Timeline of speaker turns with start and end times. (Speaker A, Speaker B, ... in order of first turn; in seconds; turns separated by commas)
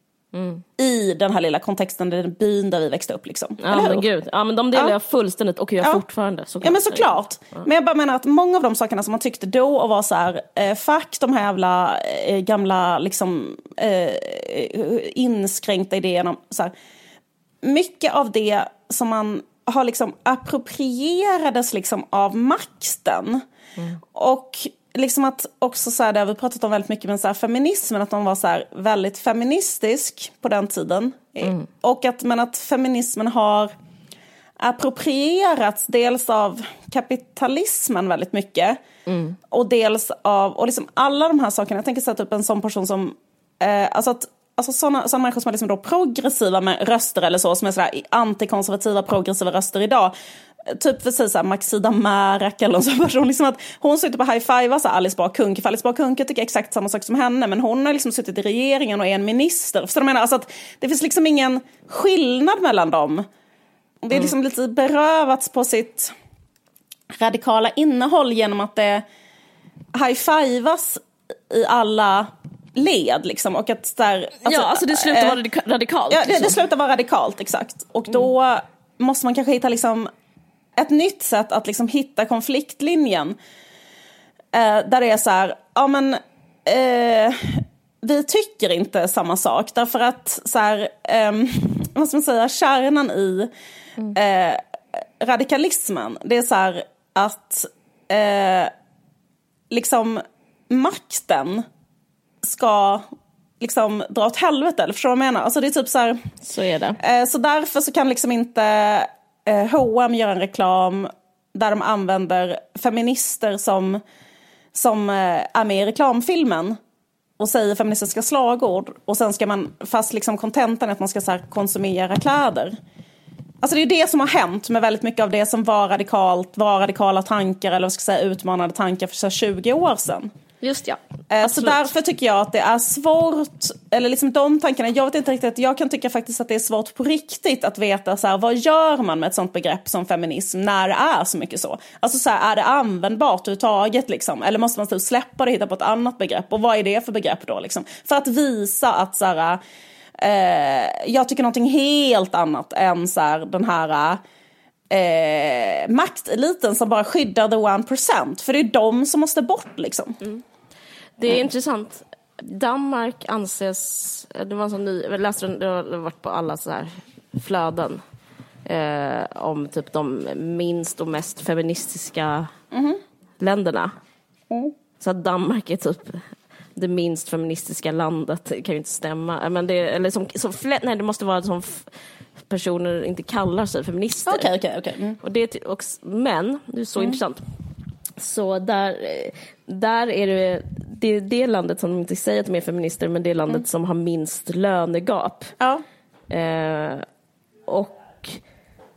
Speaker A: 0.3-0.6, Speaker B: 0.8-4.0, Speaker A: 3.6-7.6, Speaker B: 6.6-16.7, Speaker B: 17.6-23.4, Speaker B: 24.1-33.7, Speaker B: 34.6-38.8, Speaker A: 39.0-39.4, Speaker B: 39.5-50.1, Speaker B: 50.7-63.2, Speaker B: 64.0-66.1, Speaker B: 67.2-69.0, Speaker B: 69.9-75.4, Speaker A: 74.5-76.6, Speaker B: 76.1-80.1, Speaker B: 80.8-83.3, Speaker B: 84.5-93.5, Speaker B: 94.1-94.6, Speaker B: 95.2-98.7, Speaker B: 99.7-101.6, Speaker B: 102.4-103.1, Speaker B: 103.6-106.3, Speaker A: 106.4-107.0, Speaker B: 107.0-114.0, Speaker B: 114.7-116.8, Speaker B: 117.4-122.7, Speaker B: 123.6-130.3, Speaker A: 130.6-131.9, Speaker B: 131.3-149.6, Speaker B: 150.2-154.2, Speaker B: 154.9-160.2, Speaker A: 161.2-168.0, Speaker A: 168.6-172.5, Speaker B: 172.7-173.0, Speaker A: 173.4-173.9, Speaker B: 174.5-174.8, Speaker A: 175.0-181.9, Speaker A: 182.5-184.5, Speaker B: 184.2-185.2, Speaker A: 185.2-187.4, Speaker A: 188.2-195.5, Speaker A: 196.3-197.0, Speaker A: 197.7-198.4